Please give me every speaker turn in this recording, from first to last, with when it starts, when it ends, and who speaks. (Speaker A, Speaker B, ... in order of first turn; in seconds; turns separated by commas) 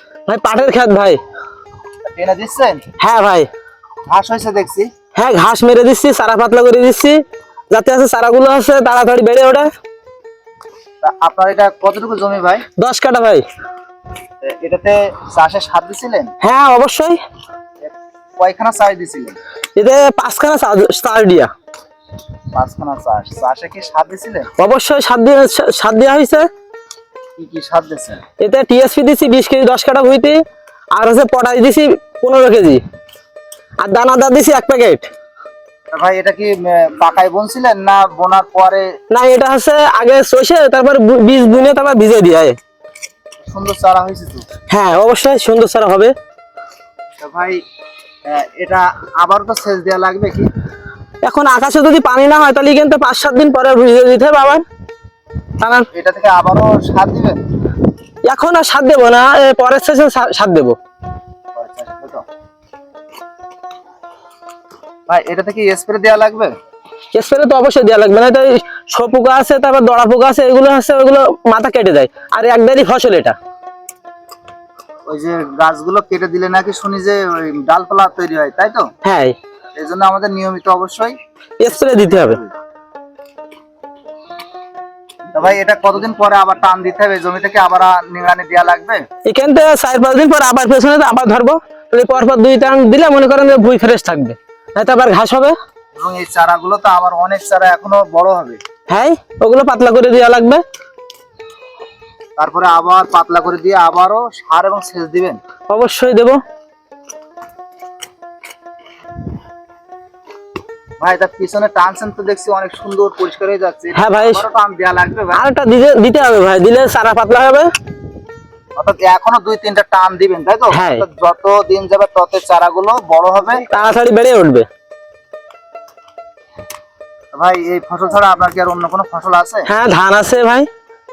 Speaker A: 0.3-1.2, Speaker B: 2.1-2.8, Speaker A: 3.0-3.5, Speaker B: 4.0-4.9, Speaker A: 5.2-7.2, Speaker A: 7.7-9.7, Speaker B: 11.0-12.7, Speaker A: 12.8-13.4, Speaker B: 14.4-16.3, Speaker A: 16.4-17.2, Speaker B: 17.8-19.4, Speaker A: 19.8-21.5, Speaker B: 22.5-24.5, Speaker A: 24.6-26.5, Speaker B: 27.4-28.2, Speaker A: 28.4-30.4, Speaker A: 30.9-32.8, Speaker A: 33.8-35.1, Speaker B: 35.9-38.9, Speaker A: 39.1-42.5, Speaker B: 43.4-44.5, Speaker A: 44.7-46.1, Speaker B: 47.2-47.6, Speaker B: 48.2-50.5, Speaker A: 51.2-54.6, Speaker A: 55.6-55.9, Speaker B: 55.9-57.4, Speaker A: 58.2-60.8, Speaker B: 61.5-62.2, Speaker B: 65.1-66.5, Speaker A: 67.1-73.3, Speaker B: 75.1-78.9, Speaker A: 79.0-79.3, Speaker B: 79.8-81.1, Speaker A: 81.6-82.4, Speaker B: 81.7-82.5, Speaker B: 85.3-89.0, Speaker A: 89.2-95.5, Speaker B: 96.0-98.6, Speaker A: 98.9-100.6, Speaker B: 102.4-105.4, Speaker A: 105.7-106.4, Speaker B: 111.0-115.4, Speaker A: 113.9-114.4, Speaker A: 115.3-117.7, Speaker B: 118.8-123.7, Speaker A: 120.7-121.0, Speaker A: 123.7-124.7, Speaker B: 127.3-129.7, Speaker A: 129.7-130.7